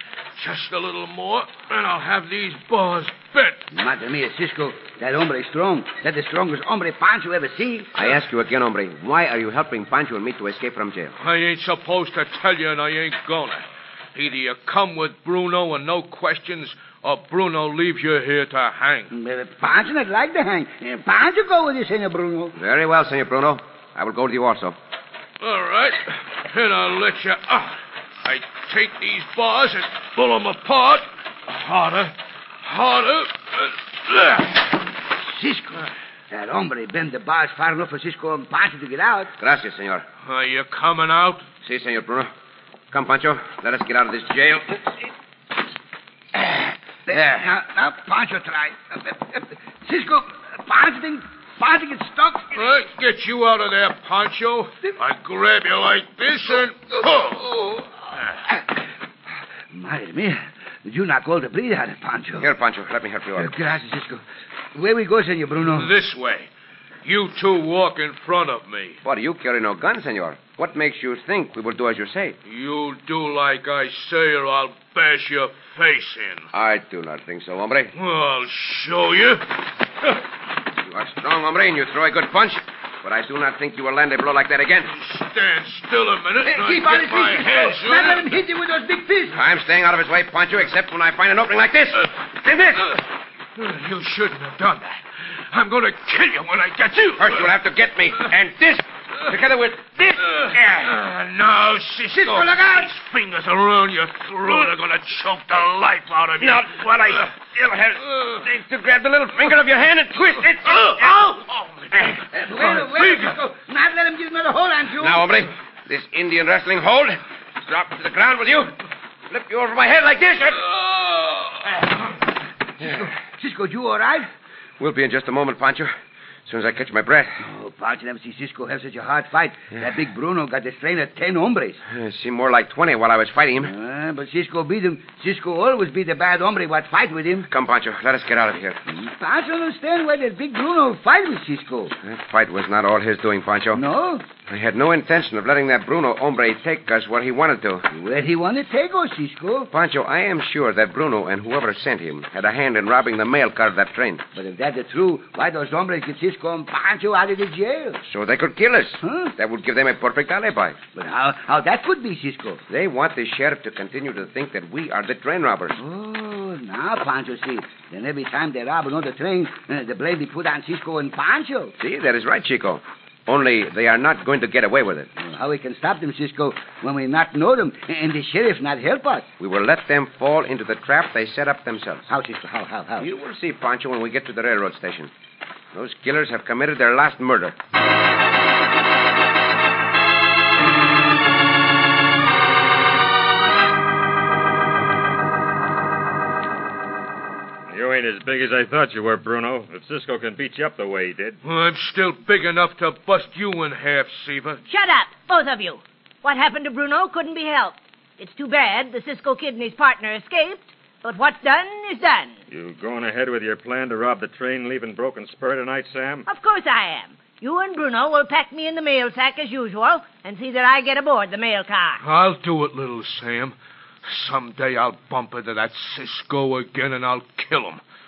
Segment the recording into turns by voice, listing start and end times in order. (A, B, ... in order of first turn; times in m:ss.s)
0:00.4-0:03.6 A
0:03.7-0:08.0 B
0:08.0-0:11.1 C
0:11.2-0:19.1 A
0:19.1-0:22.5 B
0:22.5-0:24.8 C
0:25.4-0:34.6 A
0:35.1-0:39.3 B
0:39.4-0:40.0 C
0:40.2-0:41.4 A
0:41.6-0:42.3 C
0:42.9-0:44.8 C
0:46.4-0:52.6 B
0:52.5-0:57.8 A
0:59.7-1:02.5 B
1:02.4-1:03.5 C
1:03.4-1:05.9 B
1:05.6-1:06.5 A
1:07.0-1:09.0 A
1:09.0-1:12.4 C
1:12.4-1:16.5 A
1:16.5-1:17.9 C
1:17.9-1:19.4 A
1:20.8-1:24.9 C
1:24.9-1:28.3 A
1:26.4-1:29.4 B
1:29.3-1:32.9 C
1:33.6-1:37.5 A
1:37.2-1:40.9 C
1:40.2-1:47.2 A
1:42.2-1:42.8 B
1:46.4-1:51.4 C
1:50.8-1:53.4 A
1:51.9-1:52.2 C
1:52.3-1:55.3 B
1:55.0-1:58.7 C
1:59.3-2:00.7 C
2:02.8-2:04.3 B
2:04.8-2:05.9 C
2:06.5-2:07.4 C
2:07.4-2:11.8 B
2:11.9-2:13.7 C
2:13.6-2:17.5 B
2:17.5-2:18.8 C
2:18.9-2:21.9 B
2:22.0-2:23.8 C
2:23.7-2:24.2 B
2:24.5-2:27.8 C
2:27.9-2:29.7 B
2:29.7-2:34.2 C
2:34.3-2:38.0 B
2:38.0-2:40.8 C
2:39.0-2:39.3 B
2:40.9-2:42.6 B
2:42.7-2:45.8 C
2:45.8-2:51.7 B
2:51.8-2:55.1 C
2:55.2-2:59.3 B
2:59.4-3:02.0 C
3:02.1-3:03.1 B
3:03.0-3:05.1 C
3:05.7-3:07.6 C
3:17.7-3:21.4 D
3:21.4-3:24.6 A
3:24.6-3:32.4 E
3:32.5-3:36.3 D
3:36.2-3:42.0 E
3:42.0-3:47.8 A